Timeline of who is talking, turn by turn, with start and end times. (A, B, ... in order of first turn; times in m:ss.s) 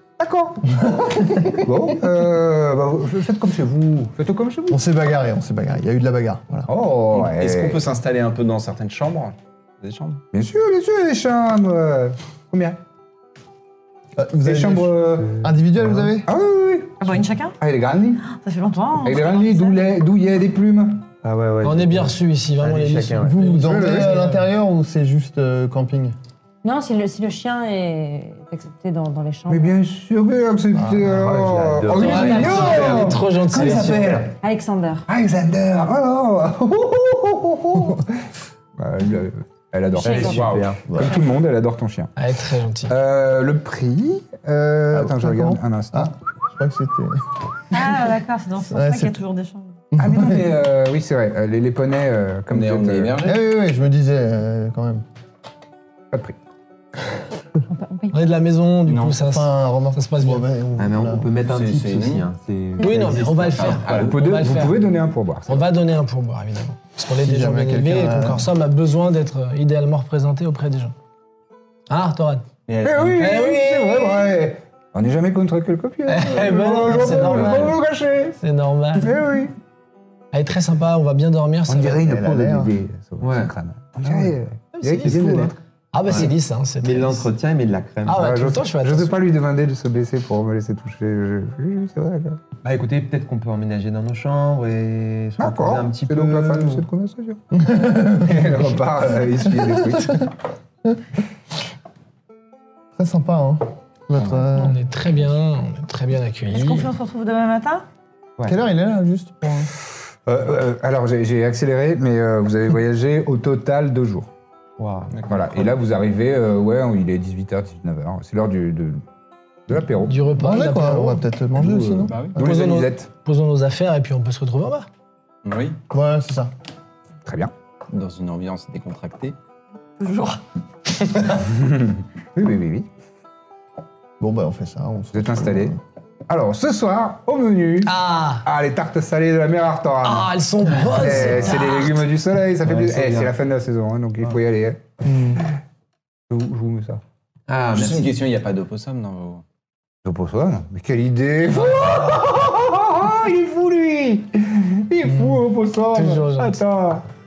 0:00.2-0:04.8 A
0:00.7-0:01.7 B
0:04.7-0:06.7 B
0:06.7-0:07.8 A
0:07.1-0:10.2 C
0:10.3-0:12.8 A
0:14.2-0:16.2 B
0:14.4-0:18.2 A
0:17.0-0:17.6 D
0:18.2-0:19.8 D
0:19.0-0:21.1 A
0:21.2-0:23.5 E
0:21.6-0:24.4 F
0:23.2-0:26.1 B
0:23.6-0:24.3 A
0:26.6-0:29.8 G
0:29.5-0:34.3 A
0:30.7-0:31.2 B
0:31.0-0:34.3 E
0:32.0-0:34.1 F
0:32.0-0:33.1 C
0:32.1-0:32.8 G
0:34.3-0:35.0 G
0:35.1-0:42.1 A
0:40.0-0:40.4 G
0:40.0-0:40.9 E
0:40.9-0:41.2 B
0:42.2-0:42.9 F
0:42.9-0:46.2 A
0:44.9-0:47.2 B
0:47.7-0:49.8 D
0:48.7-0:49.2 B
0:49.9-0:50.4 B
0:50.0-0:53.2 A
0:52.5-0:53.4 C
0:53.2-0:55.0 B
0:57.7-0:58.2 G
0:58.1-1:00.4 F
0:58.8-0:59.2 C
0:59.2-1:01.3 B
1:00.8-1:04.1 E
1:01.4-1:02.3 C
1:02.8-1:04.8 F
1:03.1-1:04.2 C
1:03.8-1:05.6 A
1:05.5-1:10.9 F
1:07.2-1:08.5 B
1:11.9-1:12.5 F
1:12.7-1:13.2 C
1:12.8-1:18.4 A
1:13.2-1:14.3 F
1:16.0-1:17.8 F
1:18.4-1:19.1 F
1:19.0-1:19.5 A
1:20.3-1:22.0 F
1:21.7-1:25.6 A
1:22.0-1:22.7 B
1:23.2-1:23.5 E
1:24.7-1:27.2 F
1:26.1-1:28.3 E
1:28.0-1:29.1 F
1:28.2-1:32.4 A
1:32.6-1:36.8 E
1:35.4-1:37.4 A
1:37.5-1:38.6 B
1:38.2-1:40.3 A
1:39.4-1:40.0 B
1:42.9-1:44.8 B
1:44.2-1:44.5 C
1:44.5-1:46.9 F
1:46.5-1:47.9 D
1:48.5-1:49.7 B
1:50.2-1:54.3 A
1:54.8-1:55.6 E
1:55.1-1:55.6 C
1:55.3-1:59.0 A
1:59.7-2:00.2 A
2:00.1-2:01.2 F
2:00.3-2:02.3 B
2:01.6-2:03.1 A
2:02.1-2:02.4 C
2:02.4-2:04.9 F
2:05.4-2:05.8 C
2:05.9-2:06.5 B
2:07.2-2:07.5 A
2:07.9-2:09.4 C
2:10.0-2:10.4 D
2:11.4-2:12.9 A
2:14.2-2:15.8 B
2:15.1-2:15.8 A
2:16.3-2:24.8 A
2:17.8-2:18.4 F
2:20.0-2:22.0 F
2:21.0-2:21.4 E
2:22.6-2:23.3 E
2:25.0-2:25.4 E
2:26.3-2:27.0 A
2:27.5-2:28.1 E
2:27.7-2:29.4 C
2:30.0-2:37.0 A
2:31.6-2:32.2 F
2:35.9-2:36.6 F